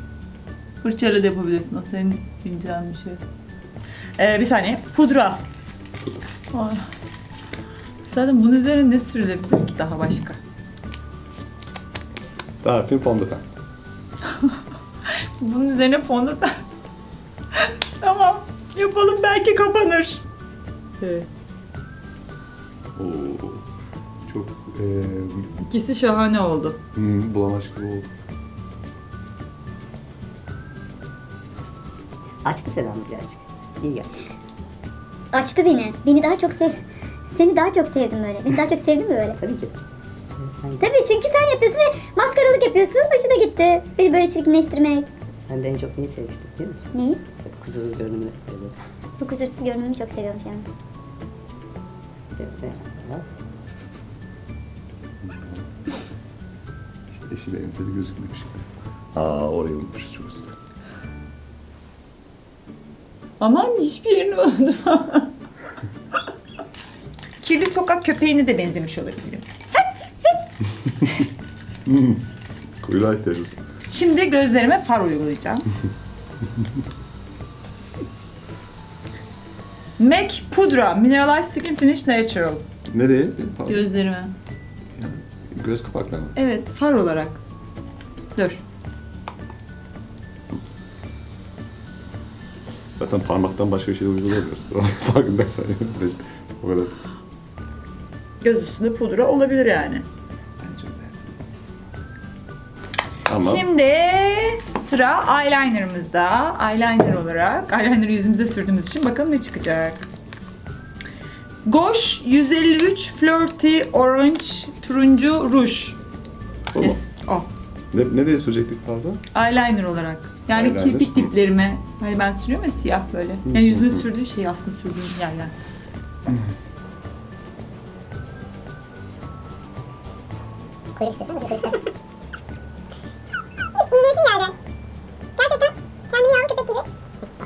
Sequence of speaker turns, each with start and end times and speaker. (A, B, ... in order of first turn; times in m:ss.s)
0:00.8-0:03.2 A
0:04.2-0:05.4 A
0:06.5-0:06.8 A
0:08.1-0:10.4 A
0:12.6-0:13.4 B
0:14.3-0:14.6 A
0:15.4-0:16.6 A
0:17.6-0:20.2 A
0:21.0-0:21.3 A
0:23.0-0:23.6 B
0:24.2-0:25.5 B
0:25.7-0:26.8 A
0:26.9-0:28.1 B
0:32.4-0:34.1 C
0:35.3-0:36.8 D
0:37.3-0:39.4 D
0:39.4-0:39.7 C
0:40.4-0:40.9 C
0:40.8-0:45.1 D
0:45.4-0:48.8 C
0:46.9-0:47.2 D
0:49.2-0:50.6 D
0:52.4-0:53.2 C
0:55.2-0:55.6 B
0:57.1-1:00.5 B
1:03.4-1:05.3 A
1:07.4-1:10.3 A
1:11.8-1:12.2 B
1:12.8-1:13.5 B
1:13.9-1:15.6 A
1:20.0-1:22.6 A
1:22.9-1:23.8 B
1:23.7-1:24.3 A
1:25.0-1:26.4 B
1:26.3-1:27.4 A
1:28.3-1:28.6 A
1:33.0-1:36.9 B
1:38.4-1:40.0 A
1:40.6-1:41.7 B
1:43.3-1:43.6 B
1:43.4-1:50.0 A
1:51.6-1:56.0 A
1:56.8-1:57.5 A
1:57.9-1:59.2 B
1:59.3-2:05.5 A
2:00.5-2:01.3 B
2:03.5-2:04.0 B
2:11.0-2:11.8 D
2:13.8-2:14.5 D
2:15.4-2:16.8 D